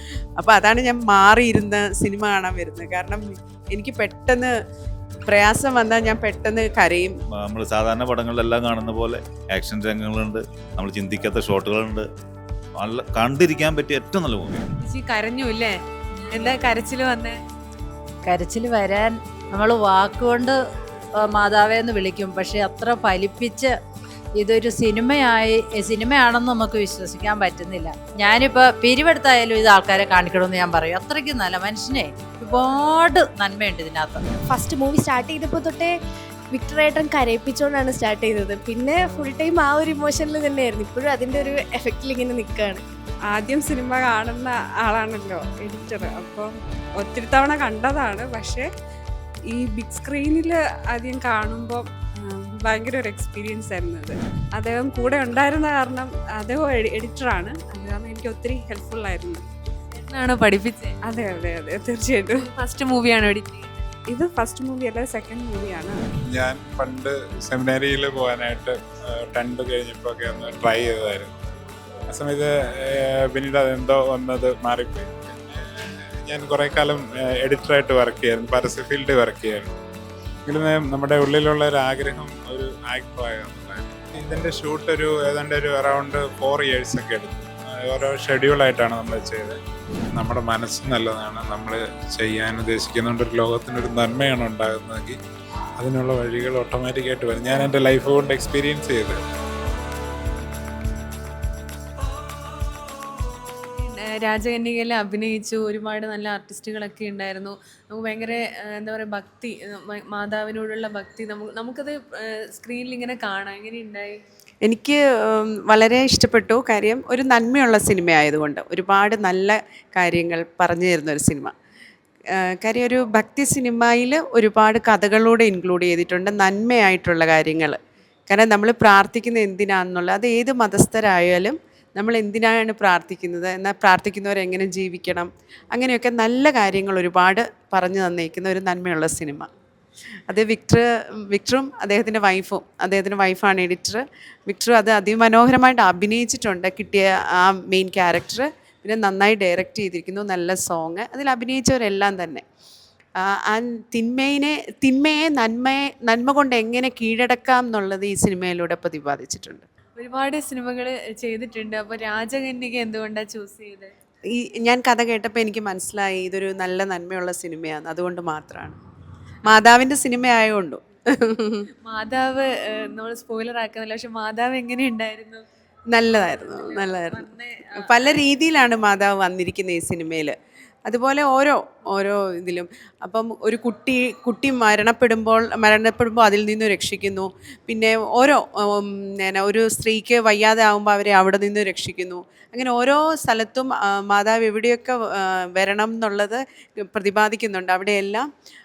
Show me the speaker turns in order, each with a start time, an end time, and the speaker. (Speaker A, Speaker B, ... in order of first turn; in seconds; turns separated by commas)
Speaker A: 0.4-4.5, Speaker A: 5.3-7.1, Speaker B: 7.3-12.1, Speaker B: 12.8-14.7, Speaker C: 14.8-15.8, Speaker C: 16.3-17.4, Speaker D: 18.2-20.6, Speaker D: 21.2-23.8, Speaker D: 24.4-34.2, Speaker E: 34.5-35.9, Speaker E: 36.5-42.8, Speaker F: 43.3-48.7, Speaker F: 49.5-59.4, Speaker C: 59.9-61.0, Speaker F: 61.0-62.5, Speaker C: 62.4-63.9, Speaker F: 64.1-66.0, Speaker G: 66.2-71.3, Speaker G: 72.1-79.7, Speaker G: 80.5-89.6, Speaker G: 90.1-95.2, Speaker G: 95.8-99.2, Speaker C: 103.8-114.2, Speaker A: 114.6-121.5, Speaker A: 122.3-139.5, Speaker A: 140.3-152.4, Speaker A: 153.2-159.7, Speaker C: 159.9-163.9, Speaker A: 164.3-168.8, Speaker A: 169.4-171.7, Speaker C: 171.8-175.4, Speaker A: 175.9-198.3, Speaker C: 176.1-178.2